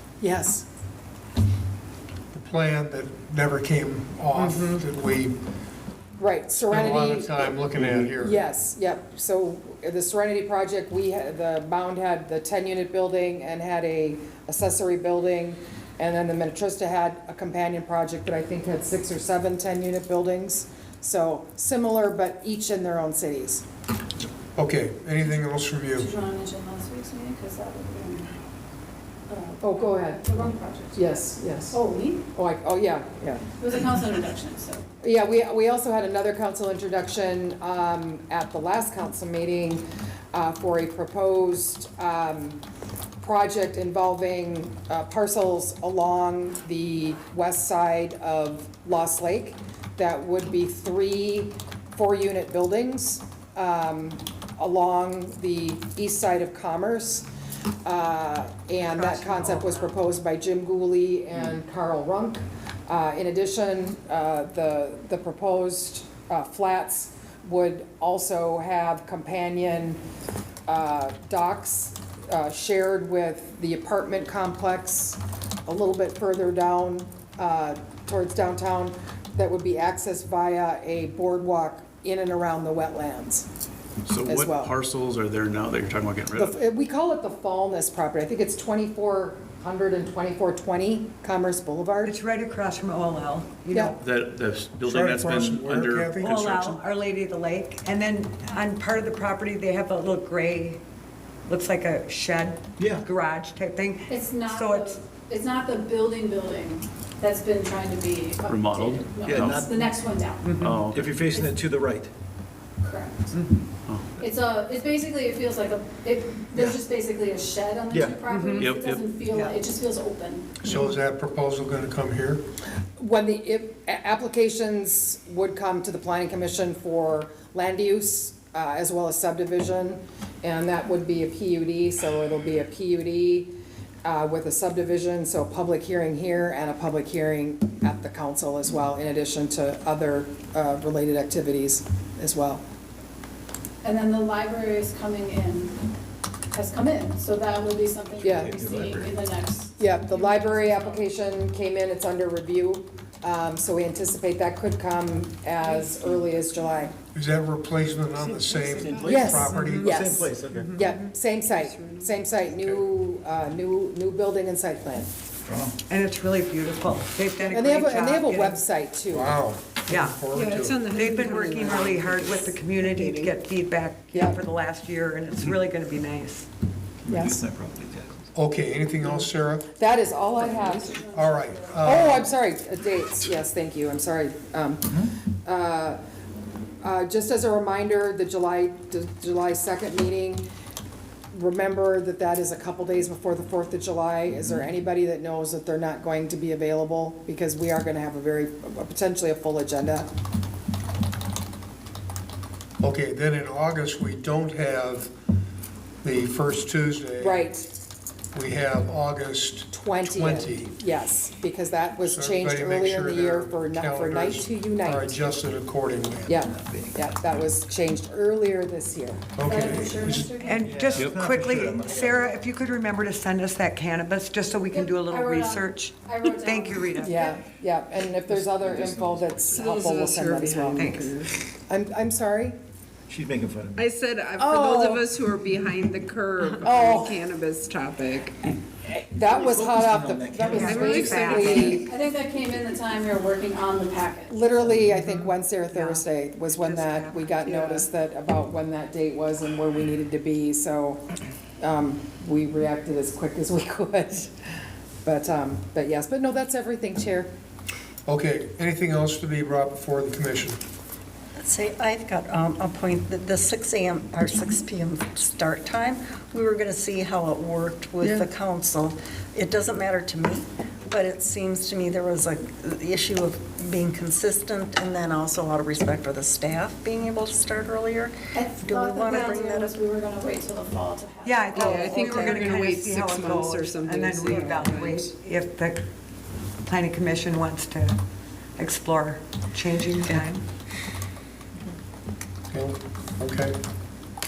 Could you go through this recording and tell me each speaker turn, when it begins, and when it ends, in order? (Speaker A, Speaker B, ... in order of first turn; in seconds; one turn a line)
Speaker A: 0.2-0.7
Speaker B: 2.3-5.3
Speaker C: 4.4-4.8
Speaker A: 6.2-7.6
Speaker B: 6.6-8.4
Speaker A: 8.2-23.6
Speaker B: 24.6-26.1
Speaker D: 25.9-28.4
Speaker D: 29.3-31.0
Speaker A: 29.6-31.8
Speaker D: 31.7-32.2
Speaker A: 32.3-33.4
Speaker D: 33.6-34.8
Speaker A: 35.0-42.6
Speaker A: 43.2-57.3
Speaker A: 57.8-70.0
Speaker C: 58.8-59.9
Speaker A: 70.7-83.5
Speaker E: 84.1-86.5
Speaker A: 84.2-84.7
Speaker A: 86.3-92.1
Speaker C: 92.0-94.0
Speaker E: 94.0-96.8
Speaker B: 94.8-96.5
Speaker C: 96.2-100.8
Speaker C: 101.5-105.0
Speaker F: 102.8-103.0
Speaker D: 104.1-110.6
Speaker E: 108.5-109.6
Speaker F: 109.2-109.9
Speaker C: 110.4-110.8
Speaker E: 110.6-111.2
Speaker F: 110.9-112.1
Speaker D: 111.2-111.6
Speaker D: 112.8-113.3
Speaker C: 113.3-113.7
Speaker D: 114.2-120.5
Speaker F: 117.9-118.2
Speaker C: 118.3-118.7
Speaker E: 118.6-119.1
Speaker C: 119.3-119.6
Speaker B: 120.6-122.4
Speaker A: 123.0-133.5
Speaker A: 134.1-142.6
Speaker D: 143.8-145.8
Speaker D: 146.5-151.0
Speaker A: 148.2-148.6
Speaker F: 148.2-149.2
Speaker A: 149.8-156.9
Speaker B: 157.1-159.9
Speaker F: 158.3-160.7
Speaker A: 159.0-165.1
Speaker G: 161.6-162.1
Speaker B: 162.6-162.8
Speaker F: 165.4-165.8
Speaker C: 165.8-168.6
Speaker A: 167.5-169.3
Speaker B: 169.1-170.9
Speaker C: 169.9-170.2
Speaker G: 170.3-173.3
Speaker C: 170.9-176.5
Speaker A: 174.1-174.4
Speaker F: 177.0-178.3
Speaker A: 177.1-177.4
Speaker B: 178.3-179.7
Speaker A: 179.8-181.0
Speaker G: 180.4-181.0
Speaker D: 180.4-181.9
Speaker B: 181.0-182.3
Speaker A: 181.8-186.0
Speaker A: 186.8-190.4
Speaker A: 191.3-200.1
Speaker B: 202.8-205.1
Speaker B: 206.0-207.5
Speaker A: 207.2-207.7
Speaker B: 208.3-210.7
Speaker A: 209.7-215.3
Speaker B: 212.0-216.3
Speaker A: 216.3-219.2
Speaker F: 216.5-217.1
Speaker B: 219.4-220.3
Speaker D: 219.4-220.9
Speaker C: 220.4-227.2
Speaker F: 220.6-222.4
Speaker D: 224.7-227.3
Speaker A: 227.0-231.0
Speaker F: 228.4-229.4
Speaker G: 229.5-231.3
Speaker C: 230.8-231.1
Speaker A: 231.7-232.6
Speaker F: 233.1-233.8
Speaker G: 233.8-238.5
Speaker A: 234.4-235.1
Speaker A: 236.6-237.2
Speaker A: 238.8-241.9
Speaker F: 239.2-241.5
Speaker G: 240.5-241.8
Speaker C: 240.6-241.8
Speaker D: 241.4-244.8
Speaker A: 244.3-251.0
Speaker C: 245.7-247.5
Speaker G: 247.6-247.8
Speaker A: 251.6-254.3
Speaker A: 255.1-257.3
Speaker B: 258.1-260.6
Speaker H: 261.4-279.7
Speaker D: 278.3-282.1
Speaker C: 281.2-285.9
Speaker G: 281.5-285.1
Speaker C: 286.6-288.0
Speaker C: 288.6-290.4
Speaker B: 292.5-293.6